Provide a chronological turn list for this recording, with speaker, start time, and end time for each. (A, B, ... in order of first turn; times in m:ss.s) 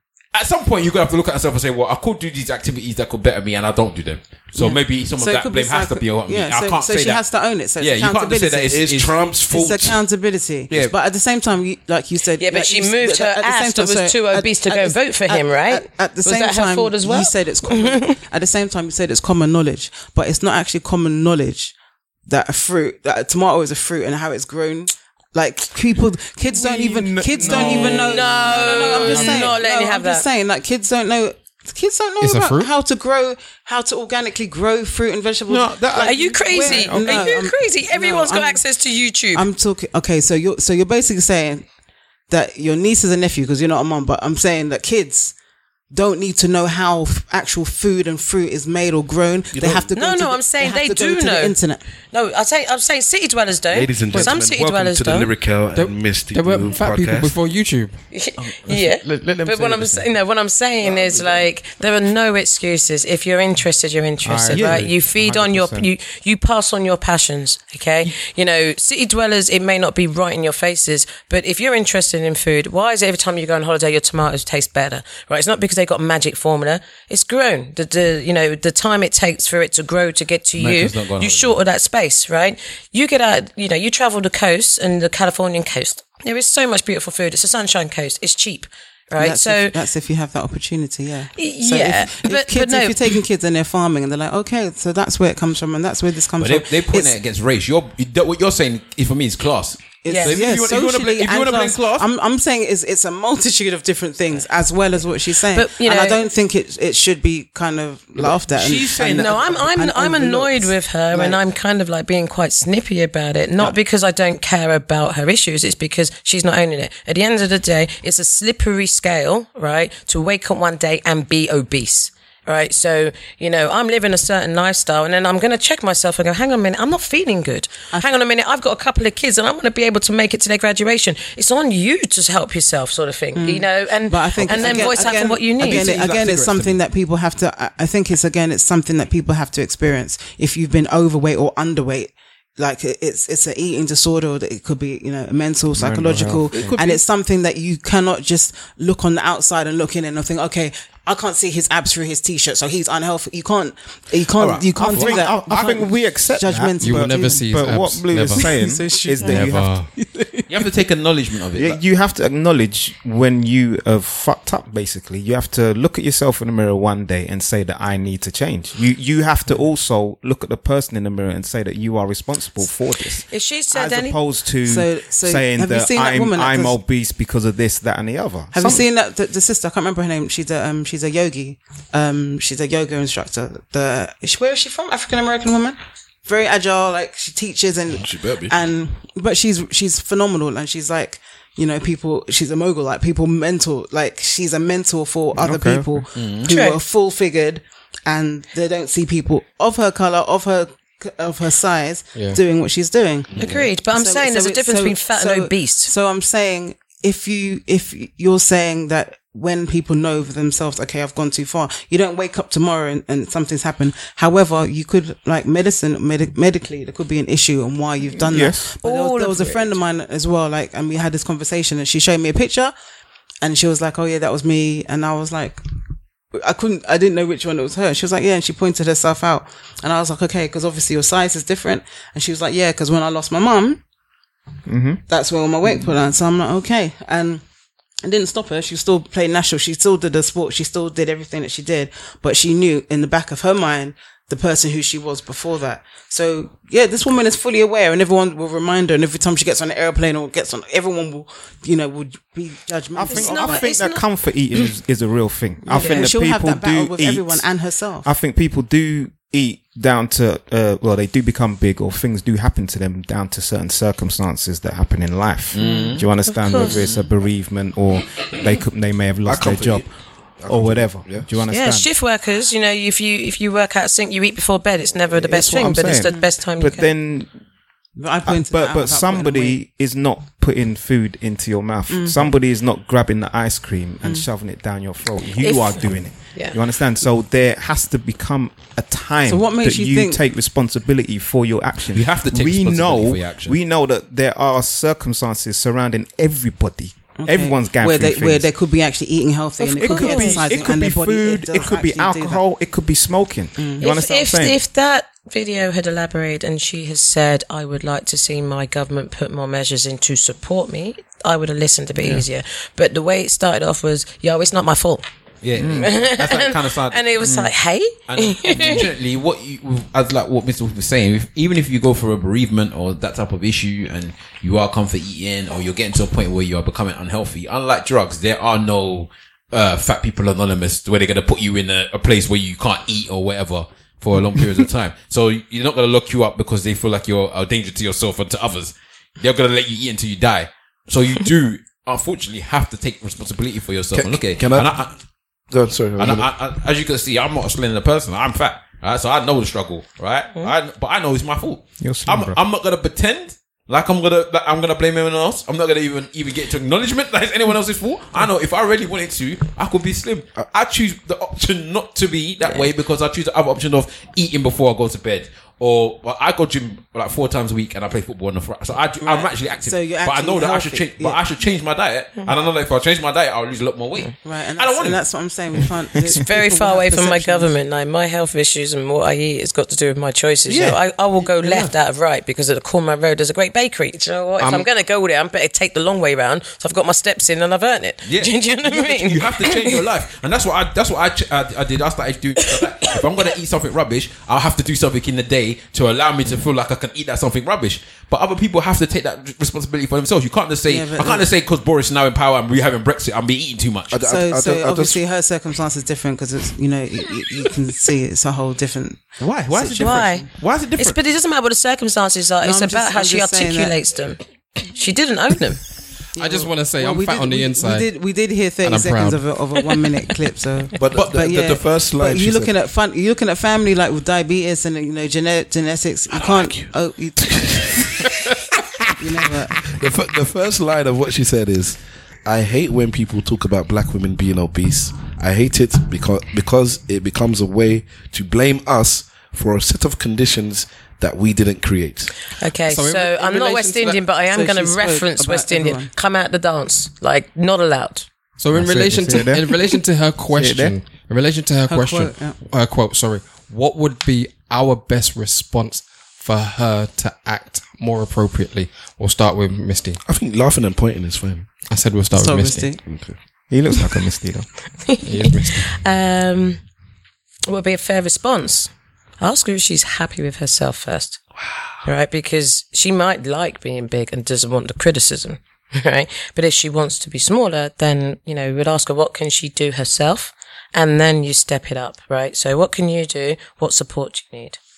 0:00.3-0:07.2 A
0:04.6-0:08.8 B
0:07.8-0:09.1 A
0:08.7-0:10.0 C
0:09.5-0:21.7 B
0:12.4-0:18.2 D
0:22.3-0:38.6 B
0:26.4-0:29.5 E
0:27.4-0:30.3 D
0:32.2-0:32.7 F
0:35.5-0:36.5 A
0:36.0-0:39.5 D
0:36.7-0:37.3 E
0:39.3-0:41.6 B
0:42.3-0:45.3 B
0:45.9-0:51.8 B
0:49.5-0:49.9 C
0:50.0-0:51.6 D
0:52.1-0:55.3 D
0:53.7-0:57.4 C
0:55.7-0:58.0 F
0:58.1-1:29.8 D
1:00.8-1:01.4 C
1:04.2-1:05.9 E
1:20.6-1:21.6 A
1:29.2-1:37.2 B
1:31.4-1:33.1 D
1:36.4-1:42.1 A
1:40.0-1:51.4 B
1:40.1-1:40.4 D
1:45.5-1:46.3 D
1:48.2-1:49.7 A
1:49.0-2:15.9 D
2:13.4-2:37.5 B
2:14.4-2:15.0 A
2:15.6-2:16.8 A
2:25.7-2:26.8 E
2:26.5-2:27.0 A
2:34.4-2:35.2 A
2:34.8-2:39.8 E
2:36.8-2:38.6 F
2:38.4-2:40.5 B
2:39.2-2:39.9 F
2:40.5-2:41.8 A
2:41.6-2:58.8 E
2:53.3-2:54.2 D
2:54.6-2:56.8 B
2:58.5-3:42.7 B
3:07.9-3:08.5 C
3:15.3-3:16.1 E
3:16.2-3:16.5 A
3:16.5-3:16.8 D
3:22.2-3:22.4 F
3:23.4-3:23.6 C
3:23.4-3:25.9 D
3:38.2-3:38.7 E
3:38.8-3:39.8 D
3:43.4-3:45.6 B
3:46.3-3:53.8 B
3:54.7-3:55.0 E
3:55.1-3:57.4 B
3:58.0-4:13.7 B
4:13.0-4:17.5 E
4:13.1-4:14.0 D
4:15.7-4:18.1 B
4:15.7-4:16.1 D
4:18.0-4:29.9 E
4:25.5-4:26.1 A
4:26.3-4:26.8 D
4:29.2-4:29.9 C
4:30.4-4:31.4 C
4:30.5-4:31.9 E
4:31.5-4:36.9 D
4:35.2-4:37.3 E
4:35.8-4:36.3 B
4:38.0-4:39.6 B
4:38.2-4:58.5 E
4:41.9-4:42.3 B
4:45.4-4:45.8 D
4:49.3-4:50.2 B
4:51.9-4:53.6 A
4:57.2-5:02.4 B
4:59.6-5:00.4 D
4:59.8-5:04.6 E
5:03.8-5:15.1 D
5:15.4-5:17.0 A
5:15.6-5:15.9 E
5:15.8-5:18.9 D
5:17.2-5:17.5 E
5:18.1-5:45.0 A
5:43.9-5:44.8 C
5:45.5-5:46.3 C
5:46.0-6:15.0 A
5:51.8-5:52.4 E
6:09.0-6:11.2 B
6:14.2-6:17.5 B
6:16.2-6:29.8 D
6:20.5-6:21.7 A
6:28.0-6:44.0 A
6:40.7-6:41.3 B
6:43.9-6:45.0 C
6:44.0-6:50.3 B
6:49.2-6:51.0 A
6:49.8-6:50.3 D
6:50.8-6:55.6 D
6:52.4-6:53.7 B
6:56.1-7:07.3 B
6:56.2-6:57.9 F
6:58.6-6:59.2 F
7:00.8-7:02.5 C
7:06.1-7:08.9 C
7:09.0-7:09.6 B
7:09.6-7:22.1 C
7:22.3-7:28.1 D
7:22.7-7:23.9 F
7:23.2-7:25.9 B
7:28.4-7:40.0 F
7:28.5-7:29.5 E
7:30.3-7:30.8 E
7:31.7-7:32.4 B
7:40.0-7:41.5 C
7:41.7-7:42.7 F
7:42.1-7:42.8 B
7:42.8-7:43.2 C
7:43.5-7:44.5 E
7:44.9-7:46.6 D
7:45.0-7:45.7 F
7:47.5-7:48.7 D
7:49.2-7:51.2 D
7:51.8-8:04.6 D